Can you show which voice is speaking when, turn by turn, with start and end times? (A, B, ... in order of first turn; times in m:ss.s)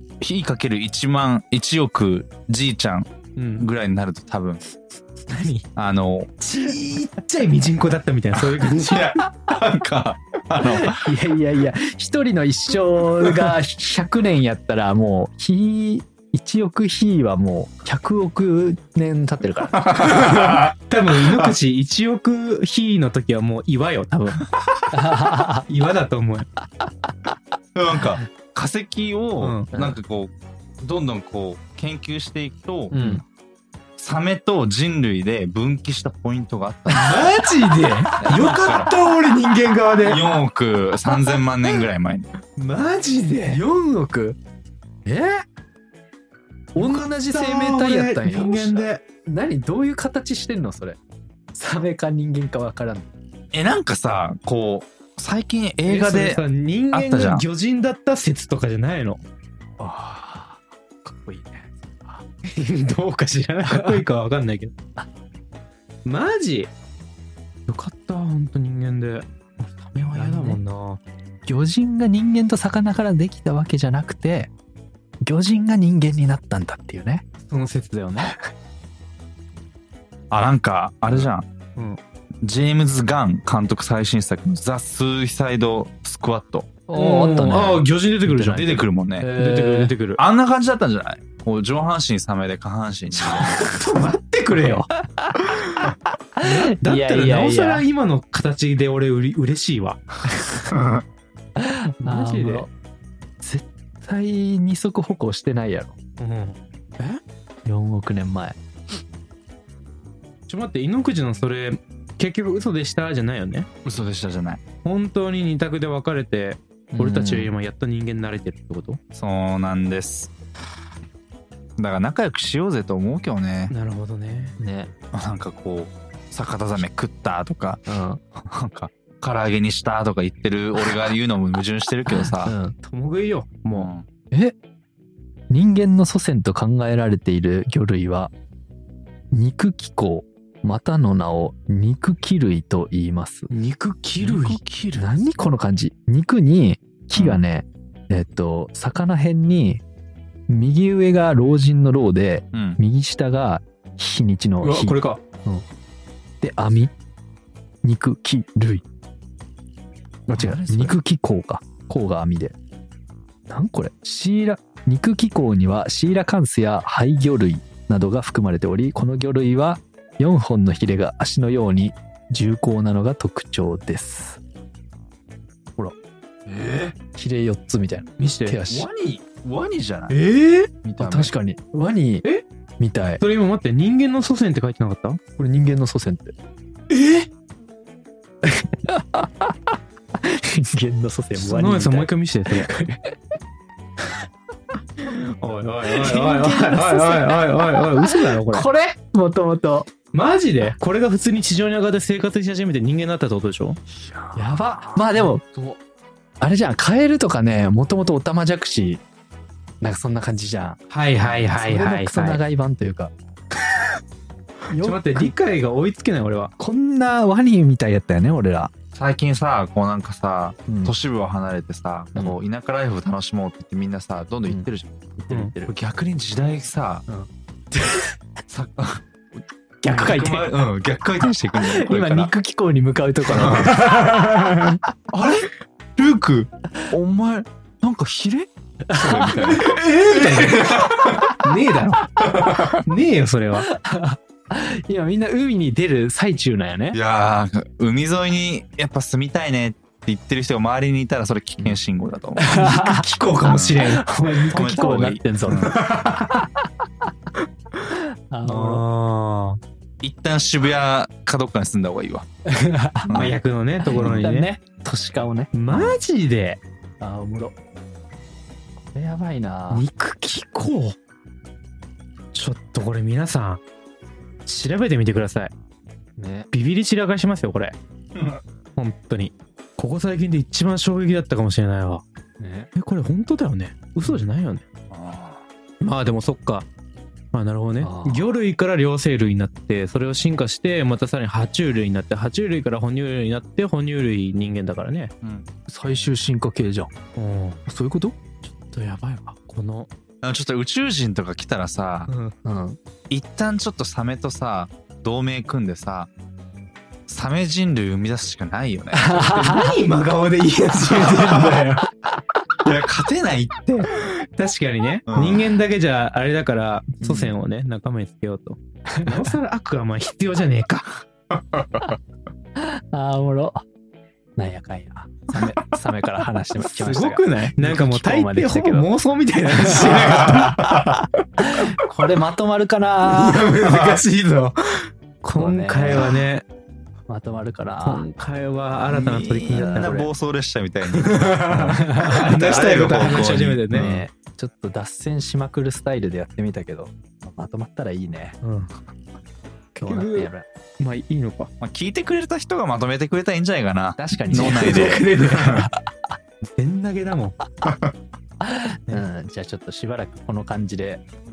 0:00.2-0:04.6 A
0:03.4-0:03.7 B
0:05.1-0:05.6 B
0:05.8-0:06.6 A
0:06.4-0:09.2 B
0:08.3-0:11.1 A
0:10.7-0:20.3 C
0:13.2-0:13.5 A
0:19.7-0:21.5 A
0:20.0-0:24.4 B
0:24.9-0:25.6 C
0:25.7-0:26.5 B
0:27.8-0:32.9 A
0:29.4-0:29.7 B
0:29.7-0:30.0 C
0:32.9-0:33.2 B
0:32.9-0:33.2 C
0:34.0-0:37.2 A
0:36.9-0:38.4 C
0:36.9-0:40.2 B
0:38.2-0:39.0 A
0:40.0-0:42.3 A
0:42.6-0:43.6 B
0:43.5-0:44.4 C
0:45.1-0:45.4 C
0:46.8-0:49.0 B
0:46.8-0:51.0 C
0:51.5-0:53.1 C
0:53.5-0:57.4 A
0:55.9-0:59.2 B
0:59.8-1:02.2 C
1:02.5-1:04.7 B
1:03.6-1:04.0 C
1:06.0-1:06.7 B
1:07.7-1:11.0 B
1:10.1-1:10.6 C
1:11.4-1:14.5 C
1:15.2-1:17.2 C
1:17.4-1:18.3 B
1:20.3-1:21.5 A
1:22.4-1:26.7 A
1:26.9-1:29.9 C
1:26.9-1:28.7 B
1:28.5-1:29.3 A
1:29.4-1:30.2 B
1:30.2-1:33.6 A
1:33.1-1:34.9 B
1:33.4-1:33.8 C
1:35.6-1:40.4 B
1:36.4-1:37.8 C
1:40.7-1:41.0 A
1:41.6-1:42.7 C
1:42.0-1:42.7 B
1:43.4-1:46.0 C
1:46.2-1:47.2 B
1:47.7-1:48.6 C
1:50.5-1:53.7 B
1:53.8-1:54.6 A
1:54.8-1:59.0 B
1:56.9-1:57.5 C
1:59.1-2:00.3 A
2:01.8-2:03.7 A
2:03.7-2:04.6 B
2:04.6-2:04.9 C
2:05.1-2:07.8 A
2:07.9-2:08.2 C
2:08.4-2:12.6 A
2:12.1-2:12.8 C
2:12.8-2:13.9 B
2:13.7-2:14.1 A
2:14.3-2:14.6 C
2:15.5-2:18.3 C
2:19.3-2:23.5 C
2:23.5-2:25.1 B
2:24.3-2:29.8 C
2:27.1-2:27.4 A
2:30.5-2:35.6 C
2:32.5-2:32.8 A
2:34.6-2:35.2 B
2:36.4-2:36.9 C
2:37.8-2:38.8 C
2:40.3-2:42.6 C
2:40.3-2:40.9 A
2:43.5-2:54.4 C
2:56.4-2:56.9 A
2:57.1-2:58.9 C
2:58.2-2:58.6 B
2:58.7-3:00.2 A
3:00.1-3:00.7 B
3:00.8-3:01.3 A
3:01.0-3:02.2 C
3:02.8-3:03.2 C
3:03.2-3:05.2 B
3:05.4-3:06.3 C
3:06.9-3:07.3 B
3:08.4-3:09.5 C
3:10.3-3:13.1 C
3:11.4-3:12.7 B
3:15.0-3:18.7 B
3:15.9-3:19.9 C
3:20.1-3:23.8 B
3:24.3-3:25.8 C
3:26.4-3:29.0 C
3:29.8-3:33.1 C
3:30.9-3:32.4 B
3:34.7-3:35.3 C
3:34.7-3:36.5 B
3:36.6-3:38.7 C
3:38.9-3:47.0 A
3:40.7-3:40.9 C
3:45.2-3:45.7 C
3:48.5-3:52.3 A
3:49.8-3:50.5 C
3:51.5-3:54.6 C
3:53.3-3:53.7 A
3:53.4-3:54.8 B
3:55.1-4:01.4 A
3:58.9-3:59.6 C
3:59.2-4:03.7 B
4:02.4-4:02.7 A
4:03.7-4:07.0 C
4:06.9-4:12.8 A
4:12.4-4:13.1 C
4:12.5-4:14.1 B
4:13.4-4:14.0 A
4:13.9-4:15.8 C
4:14.5-4:15.6 A
4:15.5-4:16.4 B
4:17.9-4:18.8 C
4:18.4-4:19.6 B
4:20.0-4:22.2 A
4:22.5-4:26.0 C
4:23.1-4:24.2 A
4:23.1-4:24.5 B
4:25.5-4:26.6 B
4:27.0-4:27.6 C
4:28.9-4:29.8 C
4:29.7-4:31.0 B
4:32.3-4:33.6 B
4:34.4-4:35.5 B
4:36.2-4:36.5 C
4:36.5-4:37.8 B
4:38.1-4:38.4 A
4:38.8-4:42.0 B
4:42.4-4:42.7 C
4:42.8-4:44.6 B
4:44.9-4:45.4 A
4:45.8-4:46.6 B
4:47.3-4:55.1 B
4:47.8-4:48.3 C
4:55.7-4:56.9 C
4:57.2-4:57.6 B
4:57.7-4:58.2 C
4:58.4-4:59.9 B
5:00.2-5:02.1 A
5:02.1-5:02.3 B
5:02.4-5:02.8 C
5:03.1-5:06.1 A
5:07.1-5:09.2 A
5:08.9-5:09.7 C
5:09.1-5:11.9 B
5:11.1-5:11.6 A
5:12.6-5:13.9 A
5:14.0-5:21.0 B
5:15.1-5:15.6 A
5:17.0-5:17.3 C
5:19.0-5:19.3 C
5:21.3-5:22.0 A
5:22.6-5:23.6 C
5:24.4-5:28.9 C
5:26.7-5:31.5 B
5:29.6-5:30.8 C
5:29.6-5:30.9 A
5:31.4-5:33.6 C
5:33.0-5:36.4 B
5:33.6-5:34.0 A
5:35.4-5:36.2 C
5:37.1-5:38.1 C
5:37.8-5:40.0 B
5:38.9-5:44.0 A
5:39.5-5:40.1 C
5:40.9-5:44.0 B
5:41.7-5:42.3 C
5:42.9-5:48.4 C
5:48.4-5:48.7 B
5:49.8-5:51.5 B
5:49.8-5:50.5 C
5:51.6-5:55.7 A
5:54.0-5:55.0 C
5:54.3-5:55.6 B
5:56.4-5:57.4 B
5:57.6-5:57.9 A
5:58.4-6:01.0 C